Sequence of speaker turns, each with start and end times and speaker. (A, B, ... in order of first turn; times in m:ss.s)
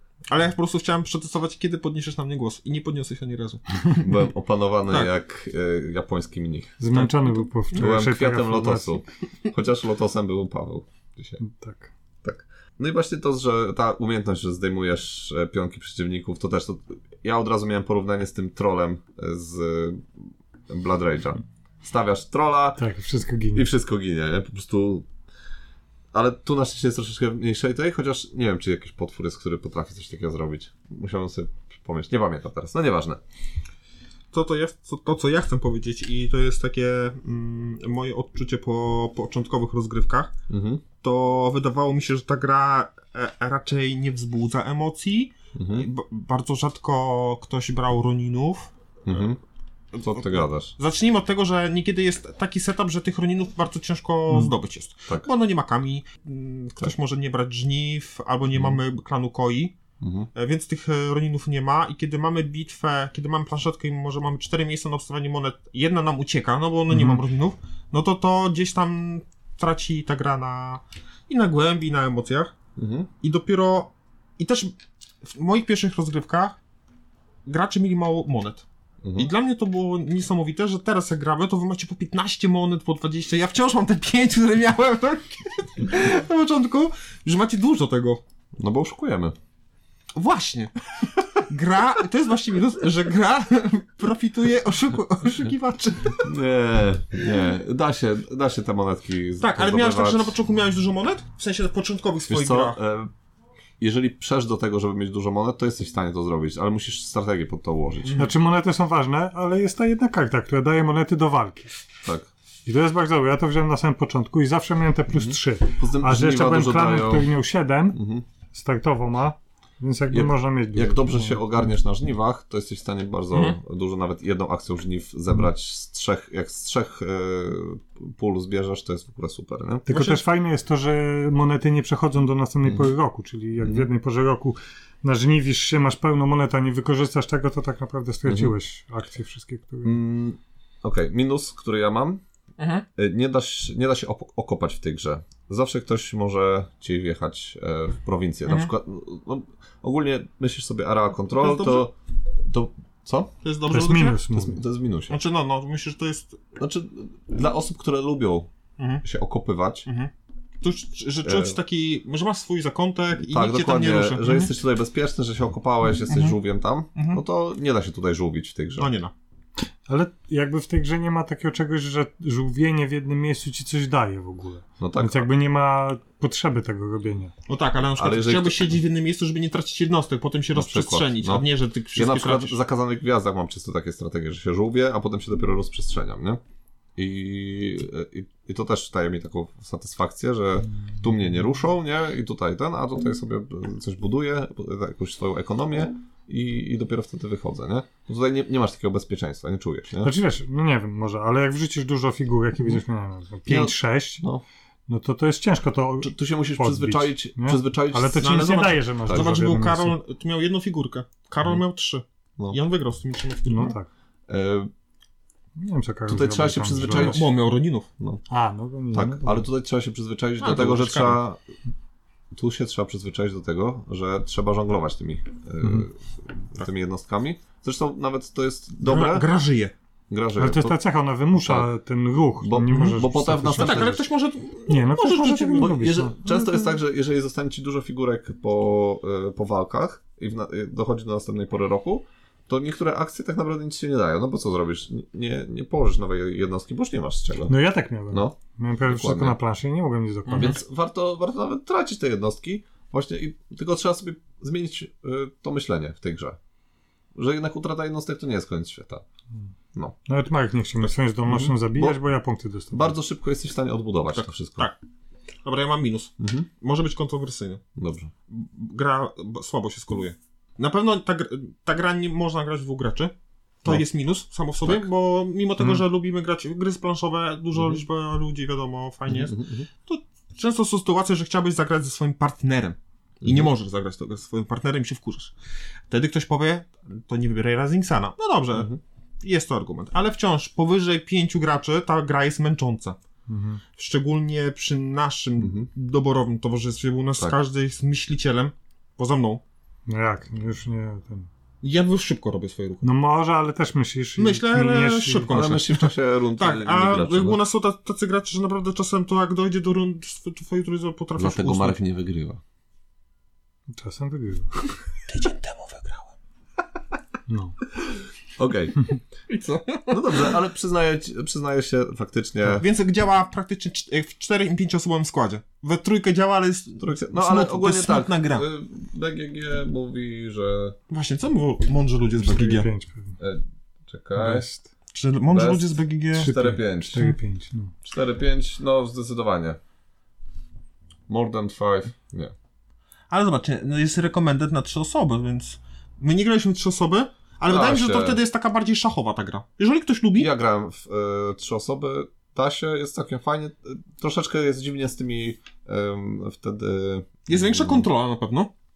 0:00.3-0:04.1 A
0:04.0-0:11.4 B
0:06.8-0:09.0 C
0:11.4-0:11.9 C
0:12.2-0:22.8 B
0:22.8-0:23.6 C
0:23.5-0:25.1 B
0:26.1-0:33.2 B
0:34.3-0:40.3 A
0:40.5-0:40.8 B
0:41.0-0:49.3 A
0:45.5-0:45.9 B
0:49.0-0:49.4 B
0:50.0-0:50.7 B
0:50.0-0:59.8 A
0:58.5-0:58.8 B
1:00.0-1:00.3 B
1:00.3-1:12.5 A
1:06.9-1:07.2 C
1:12.8-1:13.1 B
1:13.2-1:16.6 A
1:17.4-1:28.2 A
1:19.0-1:19.3 B
1:28.6-1:29.4 B
1:30.2-1:36.3 A
1:36.2-1:40.3 B
1:39.4-1:42.8 A
1:42.3-1:43.1 B
1:43.8-1:48.2 B
1:48.0-1:48.3 A
1:48.2-1:51.8 C
1:52.0-1:52.3 B
1:52.6-1:58.0 C
1:55.1-1:57.3 B
1:57.9-1:58.2 B
1:58.5-2:01.4 C
2:00.1-2:09.9 B
2:03.3-2:03.6 A
2:09.9-2:20.0 C
2:09.9-2:10.2 A
2:12.6-2:12.9 B
2:13.6-2:13.9 B
2:18.2-2:18.5 B
2:19.8-2:22.2 B
2:22.6-2:22.8 A
2:23.0-2:33.3 B
2:28.5-2:28.7 A
2:31.3-2:31.9 A
2:33.4-2:34.2 A
2:33.7-2:34.6 C
2:34.3-2:35.2 B
2:35.1-2:36.4 A
2:36.6-2:38.5 B
2:38.8-2:39.0 A
2:39.0-2:39.9 B
2:39.8-2:44.5 A
2:41.2-2:41.6 B
2:43.3-2:48.9 B
2:46.1-2:46.4 A
2:46.9-2:47.2 A
2:48.8-2:49.1 A
2:49.9-2:57.3 C
2:54.8-2:55.3 B
2:57.5-3:02.6 A
2:58.0-2:58.8 B
3:00.5-3:06.4 B
3:07.0-3:20.1 B
3:20.0-3:24.2 C
3:23.4-3:24.4 B
3:24.9-3:30.0 C
3:26.0-3:29.3 B
3:28.2-3:33.8 A
3:33.4-3:33.9 C
3:34.3-3:34.7 B
3:35.6-3:37.3 C
3:36.1-3:37.3 B
3:37.0-3:37.9 A
3:38.3-3:39.5 C
3:38.9-3:41.4 B
3:40.4-3:41.2 A
3:42.3-3:49.2 B
3:48.8-3:49.7 A
3:50.1-3:50.8 B
3:50.4-3:54.0 C
3:51.3-3:51.7 B
3:52.4-3:54.0 B
3:53.6-3:55.8 A
3:54.7-3:56.7 C
3:55.6-4:09.4 B
4:07.5-4:10.6 C
4:10.3-4:10.6 A
4:10.3-4:16.4 B
4:17.2-4:19.0 B
4:20.1-4:22.9 C
4:21.2-4:22.0 B
4:22.7-4:24.7 B
4:24.1-4:24.8 A
4:25.4-4:27.6 A
4:26.2-4:26.5 B
4:27.8-4:28.1 B
4:28.3-4:45.3 A
4:37.5-4:37.8 B
4:39.1-4:39.7 B
4:43.2-4:43.5 B
4:45.9-4:53.0 A
4:53.3-4:53.6 C
4:53.8-4:59.4 A
4:55.4-4:55.7 B
4:59.9-5:01.3 C
5:01.6-5:02.9 A
5:02.8-5:05.3 C
5:04.2-5:11.8 A
5:05.3-5:07.4 B
5:11.2-5:12.4 B
5:13.7-5:14.5 C
5:15.1-5:16.1 A
5:17.3-5:17.6 C
5:18.4-5:18.9 B
5:19.3-5:20.3 A
5:19.9-5:22.6 B
5:22.6-5:28.4 A
5:26.8-5:30.8 B
5:30.9-5:32.7 A
5:32.2-5:33.2 C
5:33.2-5:34.5 B
5:34.2-5:34.7 C
5:34.9-5:36.4 A
5:35.3-5:37.1 B
5:36.2-5:37.7 C
5:37.8-5:39.6 B
5:41.1-5:42.3 B
5:43.1-5:50.3 A
5:47.5-5:48.2 B
5:50.2-5:57.9 B
5:57.3-5:58.5 A